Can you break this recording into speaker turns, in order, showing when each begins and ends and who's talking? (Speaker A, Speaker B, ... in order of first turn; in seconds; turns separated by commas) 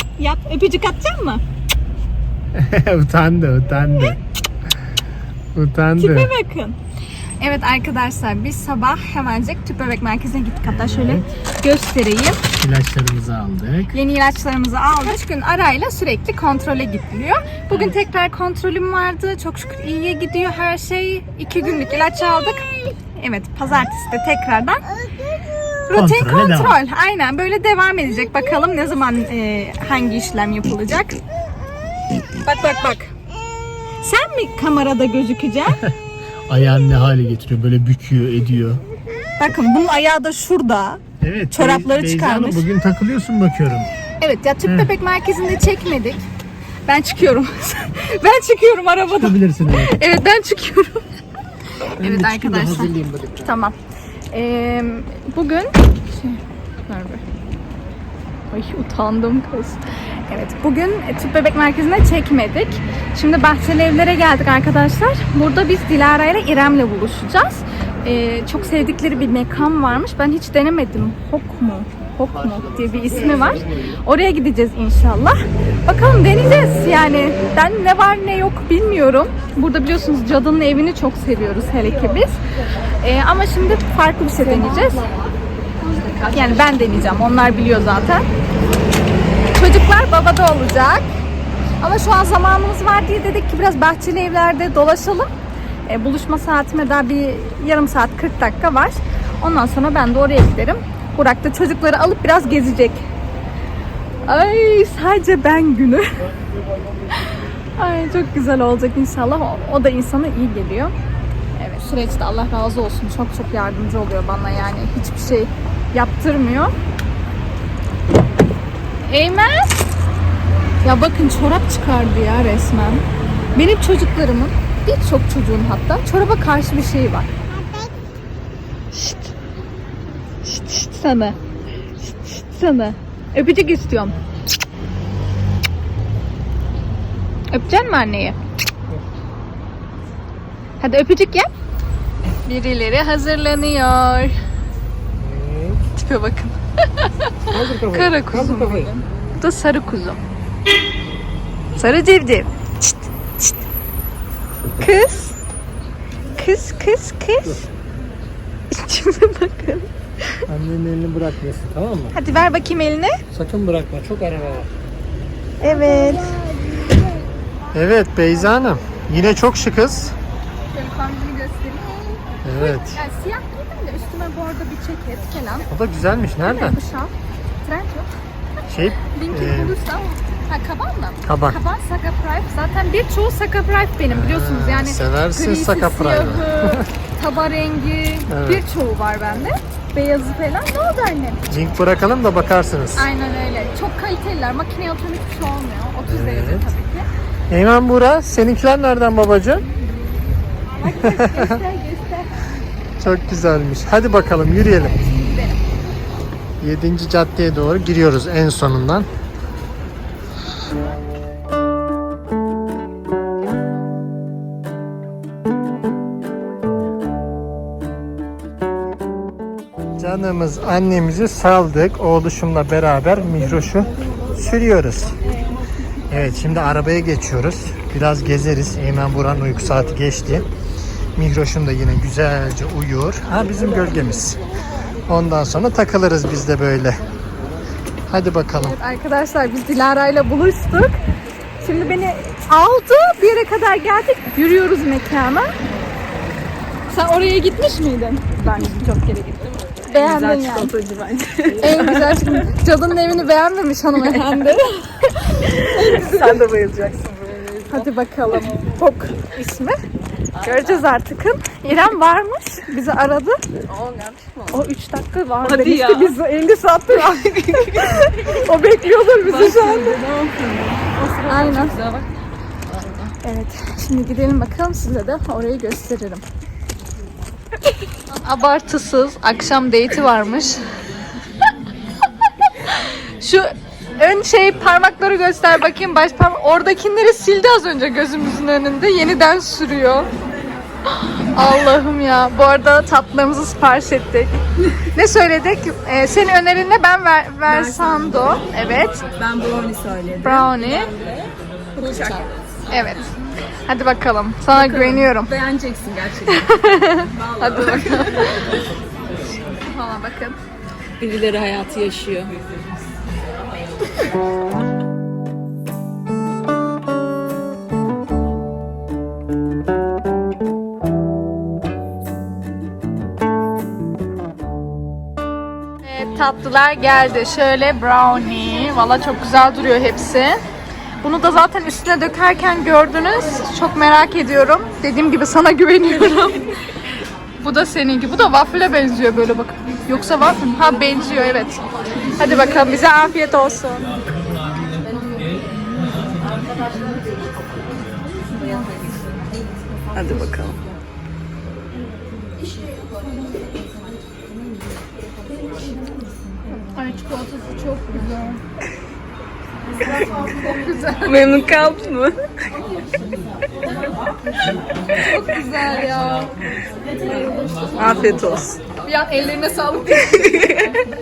Speaker A: 0.2-1.4, Speaker B: 2.5-4.2, Speaker B: 5.5-6.3, Speaker A: 6.0-6.8, Speaker A: 7.4-12.4, Speaker B: 10.7-11.2, Speaker B: 12.6-13.9, Speaker A: 13.9-24.8, Speaker A: 25.9-31.2, Speaker B: 25.9-26.8, Speaker A: 32.4-33.1, Speaker A: 34.0-35.9, Speaker B: 36.5-38.8, Speaker A: 39.4-42.6, Speaker B: 41.2-43.9, Speaker A: 44.2-46.2, Speaker B: 44.6-44.9, Speaker A: 46.9-51.0, Speaker B: 49.2-50.0, Speaker B: 52.0-53.5, Speaker A: 52.0-53.7, Speaker A: 54.3-57.2, Speaker A: 58.5-82.3, Speaker A: 83.0-85.0, Speaker C: 84.4-86.4, Speaker A: 86.3-88.2, Speaker A: 89.5-91.1, Speaker A: 91.8-95.3, Speaker A: 95.9-103.1, Speaker A: 104.2-106.2, Speaker A: 107.8-110.9, Speaker A: 111.5-116.7, Speaker A: 119.1-119.8, Speaker A: 120.8-123.0, Speaker A: 123.5-127.3, Speaker A: 128.9-129.3, Speaker A: 130.4-131.3, Speaker A: 132.0-134.2, Speaker A: 137.5-138.3, Speaker A: 140.8-141.5, Speaker A: 142.4-144.3, Speaker B: 145.2-145.8, Speaker A: 145.9-150.2, Speaker B: 147.5-149.0, Speaker A: 151.8-153.6, Speaker A: 154.7-155.4, Speaker A: 156.4-157.6, Speaker A: 158.7-160.4, Speaker B: 160.5-162.2, Speaker A: 162.1-163.2, Speaker B: 163.3-164.7, Speaker A: 165.6-166.4, Speaker C: 165.7-167.1, Speaker B: 167.7-170.1, Speaker A: 170.7-175.7, Speaker B: 172.4-173.0, Speaker B: 175.7-176.8, Speaker A: 176.4-177.1, Speaker A: 177.6-178.1, Speaker B: 178.7-179.7, Speaker A: 179.1-191.4, Speaker B: 181.2-181.6, Speaker B: 184.1-186.9, Speaker B: 188.3-188.6, Speaker B: 191.5-193.1, Speaker A: 192.9-197.1, Speaker B: 196.1-196.7, Speaker B: 197.5-199.6, Speaker A: 200.7-202.4, Speaker B: 200.9-201.6, Speaker B: 203.0-205.0, Speaker A: 204.7-205.6, Speaker B: 206.6-209.1, Speaker B: 220.0-225.1, Speaker B: 226.1-230.4, Speaker B: 231.2-234.4, Speaker B: 235.1-237.0, Speaker B: 238.1-238.8, Speaker A: 238.5-240.9, Speaker A: 241.6-245.5, Speaker A: 246.9-250.7, Speaker C: 248.5-249.3, Speaker C: 249.9-252.5, Speaker A: 251.6-256.2, Speaker C: 255.5-257.9, Speaker A: 257.7-259.8, Speaker C: 260.4-260.7, Speaker A: 260.4-263.4, Speaker C: 263.7-264.6, Speaker A: 264.5-270.0, Speaker C: 265.4-266.2, Speaker C: 266.9-268.4, Speaker C: 269.2-272.1, Speaker A: 271.3-271.8, Speaker C: 272.7-273.1, Speaker A: 273.2-276.2, Speaker A: 278.1-280.6, Speaker A: 282.6-290.1, Speaker A: 290.9-299.0, Speaker C: 297.4-298.2, Speaker C: 299.0-302.3, Speaker A: 300.2-300.9, Speaker A: 301.8-303.1, Speaker A: 303.7-305.3, Speaker C: 304.5-308.4, Speaker A: 306.3-308.5, Speaker A: 309.6-310.4, Speaker C: 311.0-312.3, Speaker A: 325.8-330.4, Speaker A: 331.0-336.5, Speaker A: 337.4-341.6, Speaker A: 342.1-343.9, Speaker C: 348.3-349.0, Speaker C: 349.9-350.6, Speaker A: 356.7-358.4, Speaker A: 360.0-361.3, Speaker C: 361.0-362.2, Speaker A: 365.0-366.3, Speaker A: 367.1-368.0, Speaker C: 367.8-368.6, Speaker A: 368.8-370.6, Speaker C: 370.0-370.8